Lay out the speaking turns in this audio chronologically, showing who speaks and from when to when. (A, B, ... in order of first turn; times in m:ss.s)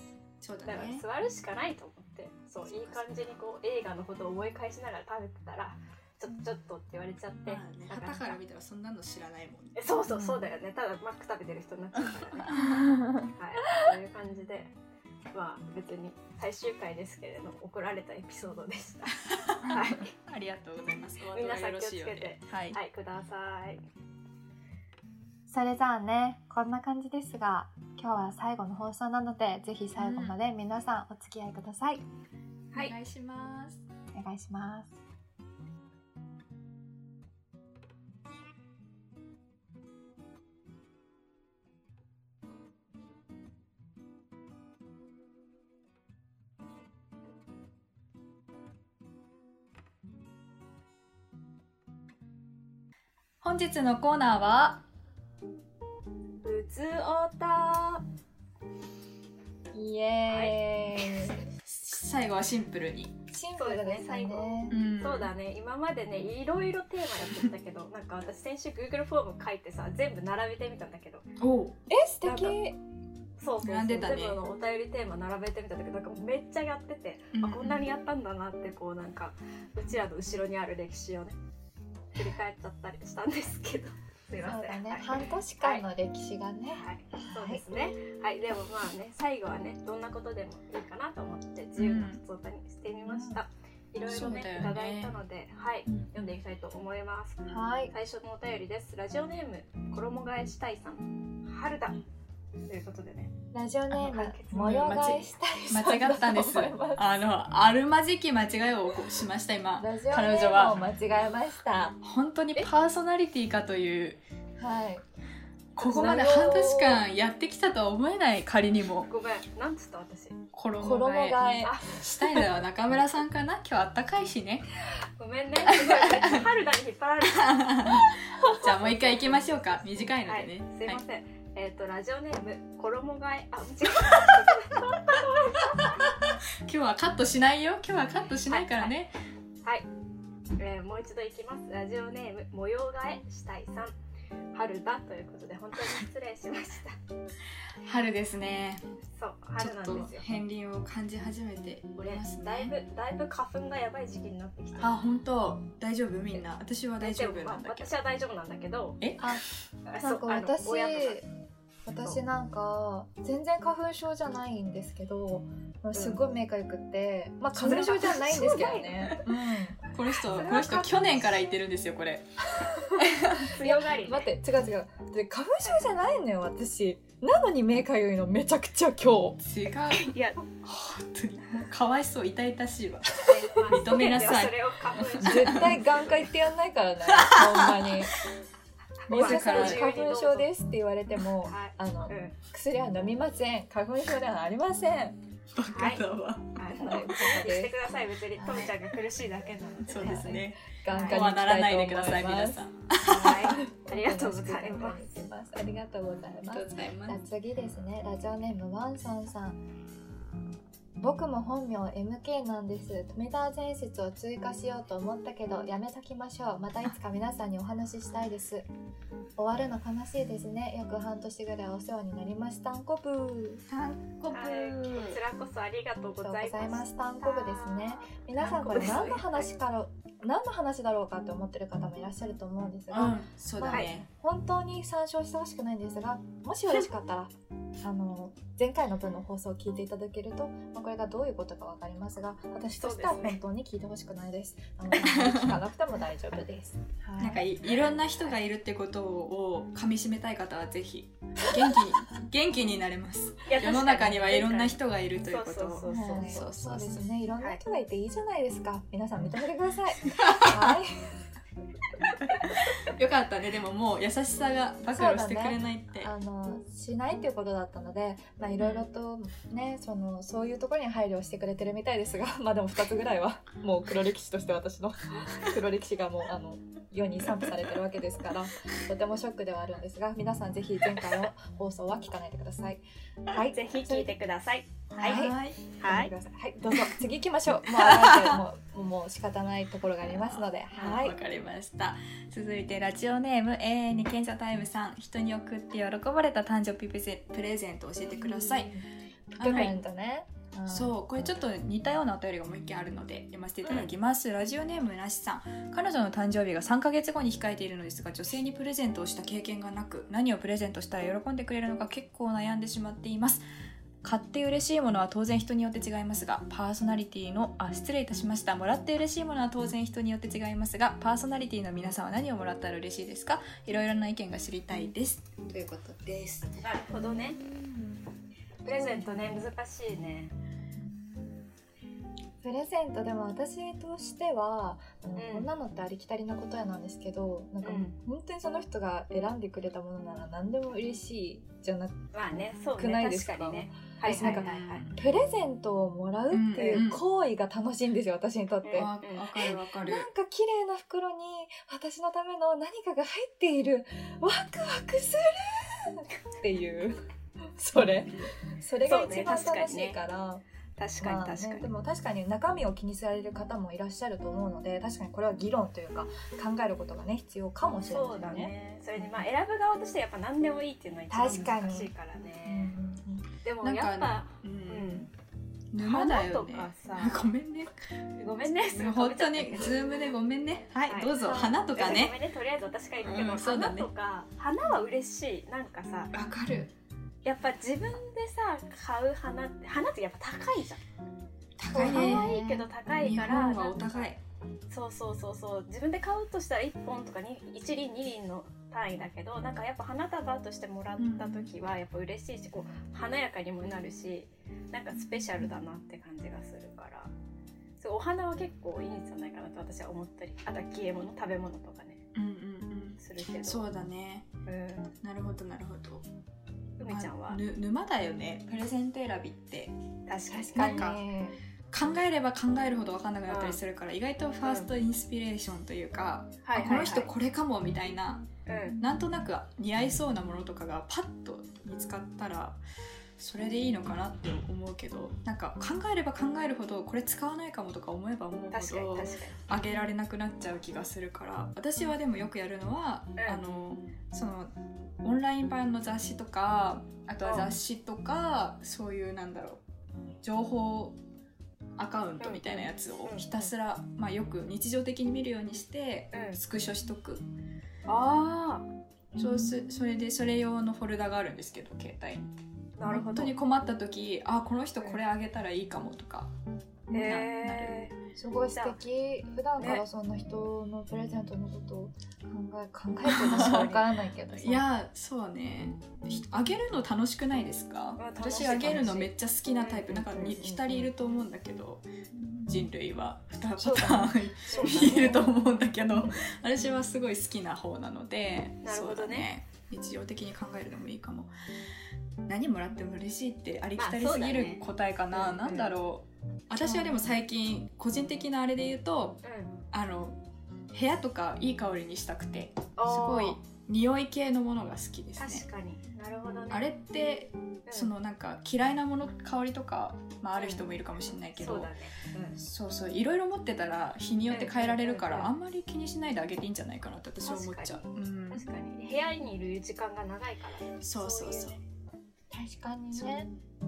0:00.4-0:01.0 A
0:00.6-0:08.4 B
0:02.6-0:03.4 A
0:07.4-0:09.8 A
0:09.8-0:12.6 B
0:12.0-0:12.8 A
0:12.9-0:13.2 C
0:13.3-0:14.7 B
0:15.3-0:20.1 B
0:19.2-0:22.8 A
0:21.3-0:23.8 B
0:25.5-0:32.0 C
0:30.0-0:30.3 A
0:32.7-0:33.8 A
0:34.1-0:35.0 C
0:53.4-0:54.8 A
0:56.4-0:58.0 B
0:59.7-1:01.4 C
1:00.2-1:00.6 B
1:01.6-1:03.1 A
1:03.3-1:04.8 C
1:03.6-1:11.2 B
1:04.7-1:05.3 A
1:11.4-1:11.8 A
1:11.9-1:12.8 C
1:12.2-1:12.6 B
1:13.4-1:21.4 B
1:13.6-1:14.4 A
1:17.3-1:17.8 A
1:22.1-1:25.8 B
1:24.4-1:27.6 C
1:26.7-1:42.0 B
1:31.8-1:32.2 A
1:33.0-1:33.4 C
1:34.1-1:35.2 A
1:35.9-1:36.3 A
1:37.5-1:37.9 C
1:42.7-1:43.3 B
1:43.5-1:47.2 C
1:43.9-1:45.2 B
1:44.5-1:50.8 A
1:49.8-1:52.0 C
1:52.0-1:54.2 A
1:54.6-1:55.0 C
1:55.8-1:57.0 C
1:55.8-1:59.1 A
1:59.1-2:00.4 B
2:00.5-2:04.7 A
2:00.8-2:01.8 C
2:01.6-2:02.0 B
2:04.8-2:07.7 B
2:05.7-2:06.4 A
2:07.3-2:11.0 A
2:08.4-2:16.1 B
2:16.6-2:19.1 A
2:18.5-2:18.9 B
2:20.6-2:23.9 B
2:24.5-2:27.0 B
2:27.8-2:28.8 A
2:29.1-2:30.4 B
2:29.6-2:32.7 A
2:32.0-2:34.9 B
2:34.8-2:37.9 A
2:37.0-2:39.0 B
2:39.0-2:39.4 A
2:39.8-2:41.2 B
2:40.0-2:41.2 C
2:41.8-2:49.8 C
2:47.5-2:48.5 A
2:47.7-2:49.2 B
2:49.2-2:53.5 A
2:50.2-2:51.5 B
2:52.6-2:59.4 C
2:53.4-2:54.3 B
2:59.4-3:05.9 A
2:59.9-3:00.4 B
3:03.2-3:06.1 B
3:05.2-3:08.2 C
3:07.1-3:08.0 A
3:09.0-3:10.5 B
3:09.1-3:15.2 C
3:09.1-3:09.9 A
3:11.4-3:12.4 B
3:15.5-3:17.0 A
3:15.7-3:16.0 B
3:16.5-3:21.2 B
3:16.8-3:17.8 C
3:18.4-3:18.7 C
3:19.8-3:23.6 A
3:20.0-3:29.6 C
3:23.0-3:25.0 B
3:26.5-3:27.2 A
3:31.0-3:38.6 C
3:39.4-3:43.6 C
3:43.7-3:45.2 A
3:44.3-3:49.5 B
3:46.2-4:07.4 C
3:48.4-3:49.0 A
3:52.9-3:53.2 B
3:52.9-3:54.1 A
3:53.7-3:54.0 B
4:02.8-4:03.4 B
4:04.9-4:05.6 A
4:07.2-4:17.0 A
4:13.5-4:16.4 B
4:15.9-4:21.2 C
4:20.1-4:20.7 A
4:22.4-4:26.1 A
4:24.9-4:44.1 C
4:43.5-4:45.3 B
4:44.9-4:45.7 A
4:45.0-4:51.2 C
4:45.8-4:46.1 B
4:47.7-4:48.4 A
4:50.1-4:58.7 A
4:58.1-5:00.9 C
4:59.4-4:59.8 A
5:00.7-5:13.4 A
5:03.6-5:03.9 B
5:14.0-5:26.5 A
5:26.6-5:27.4 B
5:26.9-5:28.1 C
5:28.6-5:30.3 B
5:28.6-5:29.4 C
5:30.7-5:31.4 C
5:32.4-5:42.0 C
5:35.2-5:35.5 B
5:37.6-5:38.0 B
5:42.1-5:44.8 B
5:42.8-5:48.9 C
5:44.2-5:45.0 A
5:46.3-5:47.0 A
5:48.6-5:49.6 B
5:48.7-5:50.1 A
5:49.5-6:00.4 C
5:58.8-6:00.0 B
6:00.8-6:01.7 B
6:01.0-6:08.5 C
6:07.9-6:12.7 B
6:11.1-6:11.9 C
6:12.4-6:13.3 C
6:13.4-6:15.1 B
6:13.6-6:15.1 A
6:15.7-6:22.2 A
6:15.8-6:17.2 B
6:18.2-6:19.8 B
6:20.8-6:26.1 B
6:23.0-6:23.9 A
6:26.1-6:26.7 A
6:27.2-6:30.8 B
6:31.6-6:32.4 A
6:31.7-6:32.7 C
6:31.8-6:34.1 B
6:33.0-6:34.2 A
6:34.7-6:47.1 B
6:41.0-6:41.5 A
6:47.8-6:52.0 B
6:52.1-6:54.3 A
6:53.0-6:53.6 B
6:54.4-6:54.9 B
6:55.0-6:56.0 A
6:56.8-6:57.4 B
6:56.8-6:59.7 A
7:00.1-7:00.9 B
7:00.3-7:01.4 C
7:00.5-7:01.0 A
7:01.7-7:08.3 A
7:03.3-7:03.6 B
7:04.4-7:04.7 B
7:06.4-7:07.1 B
7:08.4-7:08.8 B
7:08.8-7:12.6 A
7:13.2-7:29.6 A
7:18.5-7:19.4 B
7:27.2-7:27.5 B
7:30.2-7:31.0 A
7:31.8-7:37.2 A
7:32.2-7:33.5 B
7:36.1-7:36.4 B
7:37.9-7:38.6 B
7:39.1-7:39.6 C
7:39.2-7:42.3 A
7:42.8-7:43.4 B
7:42.9-7:46.3 A
7:46.9-7:47.9 A
7:46.9-7:47.9 B
7:48.2-7:54.6 C
7:48.5-7:48.8 B
7:49.6-7:49.8 B
7:53.1-8:01.9 A
7:53.2-7:53.8 B
7:58.0-8:00.9 B
8:02.1-8:02.6 C
8:02.4-8:11.3 A
8:03.6-8:05.3 C
8:04.5-8:05.2 B
8:08.6-8:09.3 B
8:12.3-8:20.2 A
8:13.8-8:15.7 B
8:16.6-8:17.1 C
8:19.2-8:19.5 B
8:20.7-8:25.4 A
8:22.8-8:23.4 B
8:25.2-8:26.7 B
8:26.5-8:31.7 A
8:27.7-8:27.9 B
8:30.3-8:30.7 B
8:31.4-8:32.4 B
8:32.4-8:38.5 A
8:34.3-8:35.3 B
8:37.2-8:41.6 B
8:40.8-8:41.6 A
8:42.3-8:43.3 C
8:42.9-8:43.3 A